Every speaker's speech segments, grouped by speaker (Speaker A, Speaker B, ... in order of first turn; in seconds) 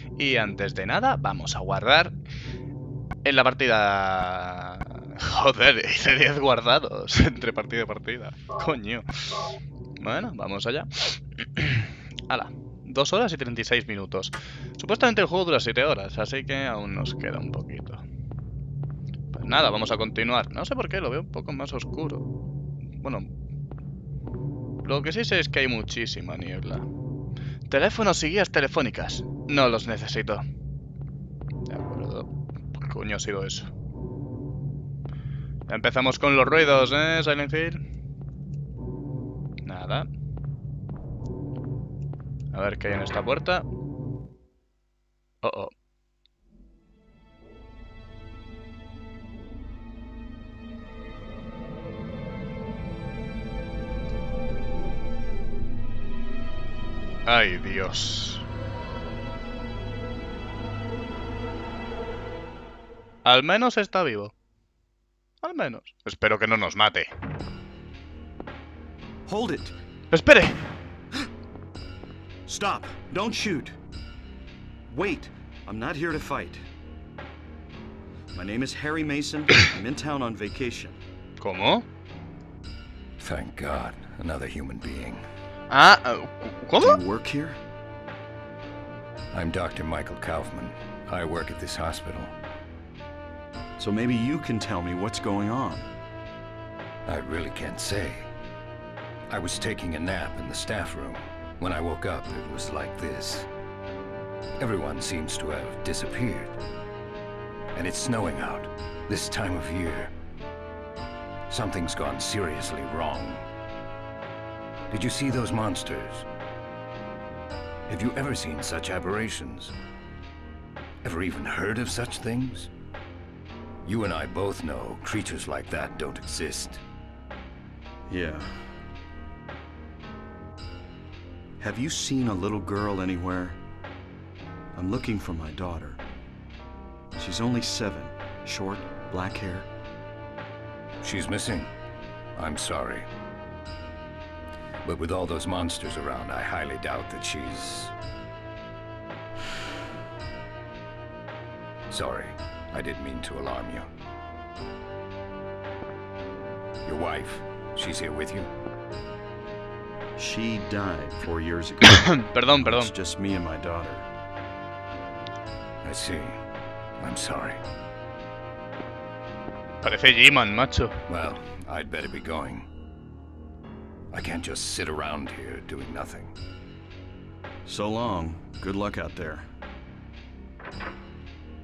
Speaker A: 0.1-2.1, 3.2-18.0, 19.3-22.3, 23.0-23.3, 24.8-26.9, 27.7-30.4, 31.7-33.7, 35.7-37.8, 39.6-40.1, 42.5-43.7, 45.4-45.7, 57.3-58.5, 63.2-64.3, 65.4-67.1, 70.1-70.6, 81.4-81.8, 85.7-87.0, 161.8-162.9, 169.8-171.0
Speaker B: 69.3-69.7, 72.5-73.8, 74.9-76.7, 78.3-81.0, 86.8-87.6, 93.8-95.9, 128.1-128.8, 131.6-133.6, 134.7-136.0, 137.1-139.7, 160.2-164.1, 177.7-179.4
Speaker C: 83.2-85.2, 89.3-92.3, 97.1-98.3, 99.3-103.5, 104.6-106.6, 107.7-110.1, 111.5-113.5, 114.9-116.3, 117.9-119.8, 121.0-122.7, 123.8-126.8, 141.0-141.7, 142.3-143.1, 144.8-147.9, 151.9-153.9, 156.8-158.5, 165.8-166.4, 167.0-167.6, 171.1-172.7, 174.1-176.3